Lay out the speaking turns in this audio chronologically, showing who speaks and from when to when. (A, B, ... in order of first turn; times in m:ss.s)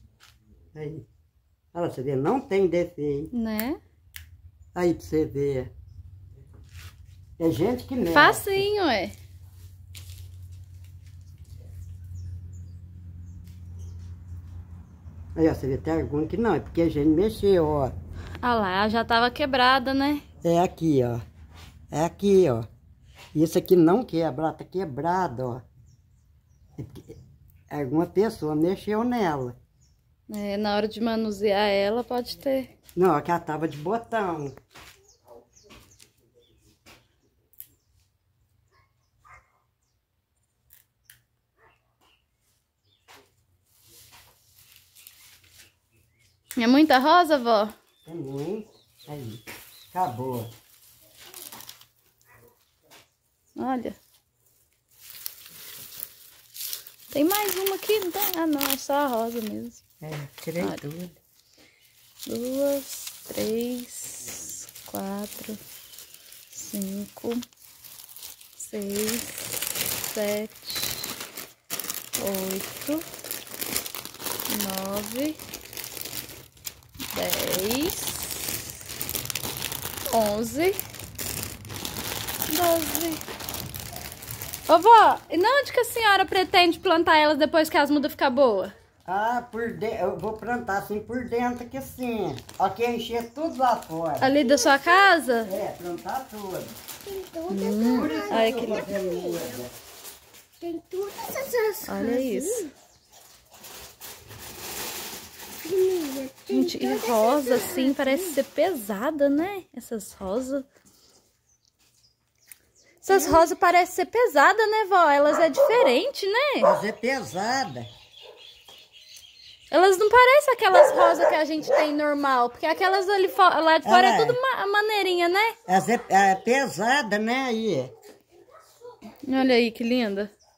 0:00.7-0:01.0 A
0:01.7-0:03.3 A
0:03.3-0:03.8 B
0:04.7-0:05.7 A
0:07.4-0:08.6 A
0:08.1-0:09.1 B
0:15.4-0:17.9 A
0:18.4-0:20.2 B
0:20.4-0:21.2 A
0:21.9-0:22.7 A
0:23.3-0:25.6 A
0:26.8-0:27.2 A
0:27.7-0:29.6 A
0:30.3-0:32.7 B
0:33.0-0:34.5 A
0:46.6-0:47.7 B
0:48.0-0:50.5 A
0:53.6-0:54.0 B
0:57.1-0:59.8 B
1:00.0-1:01.2 A
1:02.2-1:05.6 B
1:06.5-1:07.4 B
1:08.6-1:11.1 B
1:12.2-1:13.0 B
1:14.5-1:15.4 B
1:17.1-1:18.6 B
1:20.1-1:20.8 B
1:22.5-1:23.2 B
1:24.7-1:28.7 B
1:29.0-1:34.3 A
1:34.2-1:35.5 B
1:34.4-1:35.4 C
1:35.4-1:36.7 A
1:37.0-1:39.6 C
1:37.5-1:38.9 B
1:37.9-1:39.7 A
1:40.6-1:42.7 C
1:41.8-1:42.7 B
1:45.6-1:48.4 C
1:46.5-1:50.6 B
1:53.0-1:56.7 B
1:53.1-1:53.5 C
1:56.6-1:57.9 A
1:59.7-2:05.5 B
2:03.8-2:04.4 A
2:05.7-2:07.9 A
2:09.2-2:10.3 B